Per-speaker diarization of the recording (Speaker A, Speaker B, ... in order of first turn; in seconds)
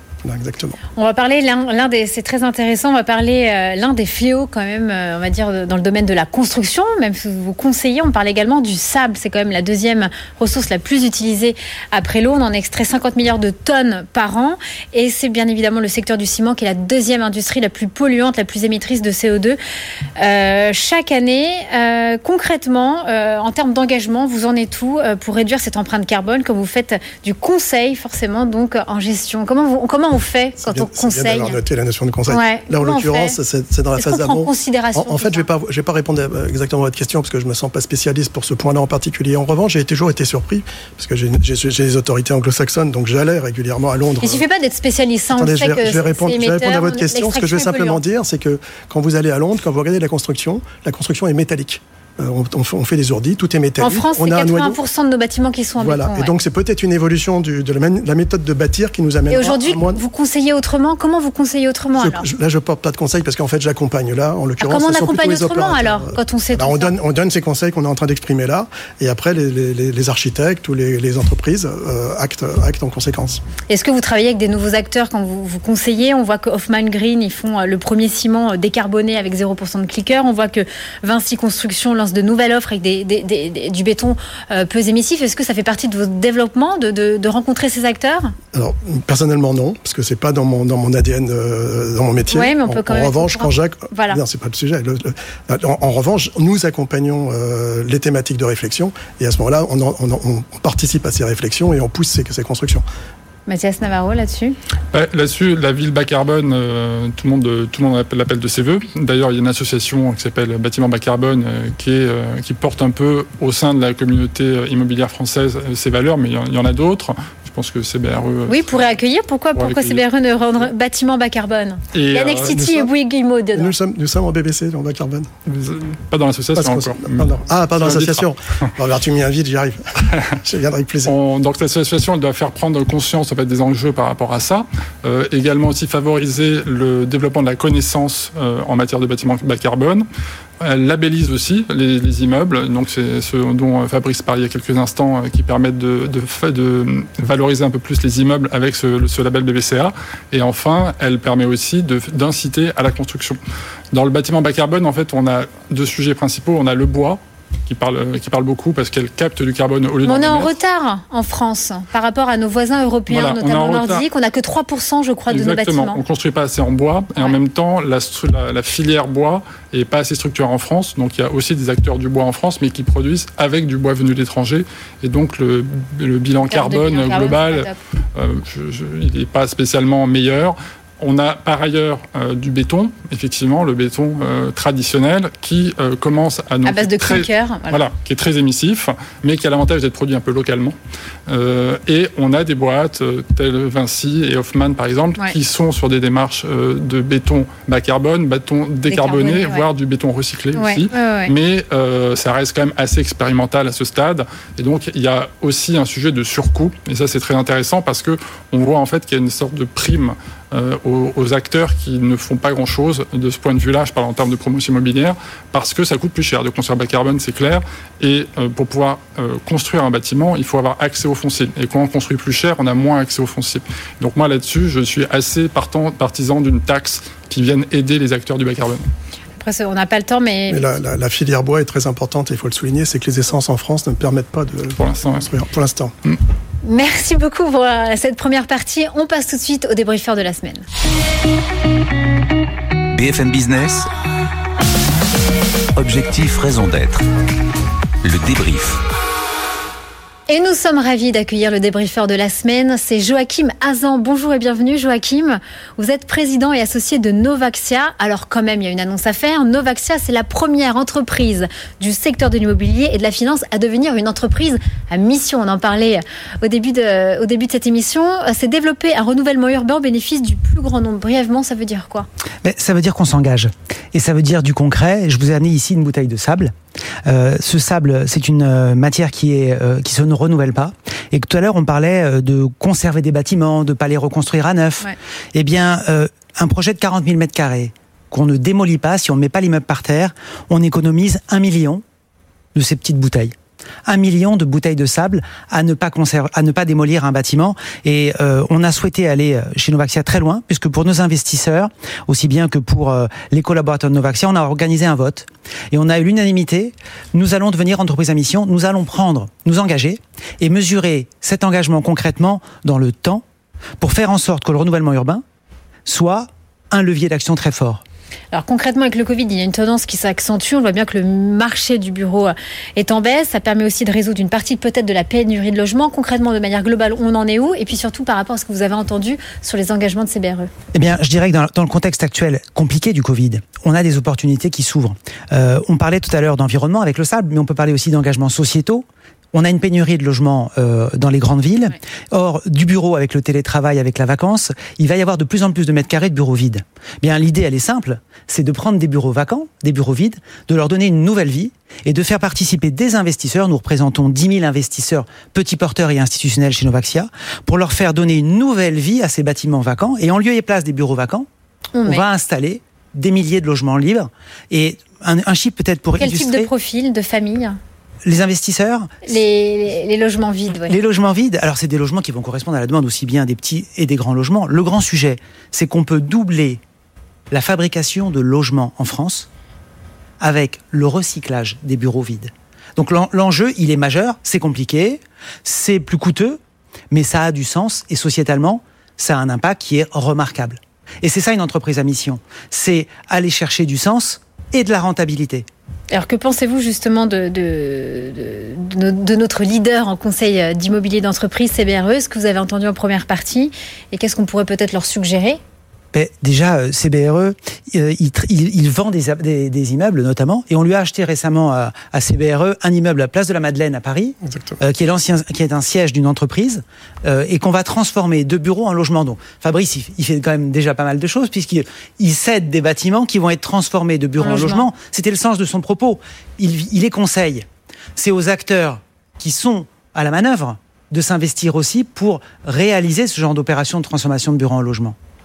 Speaker A: 0.2-0.8, 30.6-44.4, 45.3-54.8, 55.8-60.0, 62.0-73.4, 88.5-102.8, 122.5-122.9, 123.5-125.3, 126.5-131.1, 230.5-235.9, 414.2-414.6
Speaker B: 1.0-19.6, 20.2-31.6, 32.3-33.4, 34.0-35.5, 44.2-48.0, 53.8-56.3, 59.3-62.2, 64.6-66.9, 73.7-88.3, 92.3-94.2, 103.5-104.6, 118.5-123.7, 160.0-166.0, 176.5-177.8, 186.6-187.8, 198.9-199.7, 200.5-201.3, 229.4-230.7, 236.6-240.6, 250.3-272.1, 318.3-330.5, 361.7-362.0, 366.0-367.6, 369.0-370.8, 395.9-405.4, 424.2-424.7
Speaker C: 104.9-118.9, 119.5-120.0, 121.9-122.5, 125.5-128.3, 131.0-140.0, 140.6-153.4, 153.9-160.5, 163.1-164.1, 165.3-190.8, 191.3-228.9, 234.8-235.3
Speaker D: 242.9-243.9, 245.8-247.1, 248.0-248.8
Speaker E: 272.4-276.5, 277.1-291.8, 292.5-313.2, 313.8-315.2, 315.9-317.8, 330.7-361.3, 361.9-366.5, 368.0-368.9, 370.6-376.6, 377.3-379.3, 380.2-386.4, 386.9-395.5, 405.9-435.0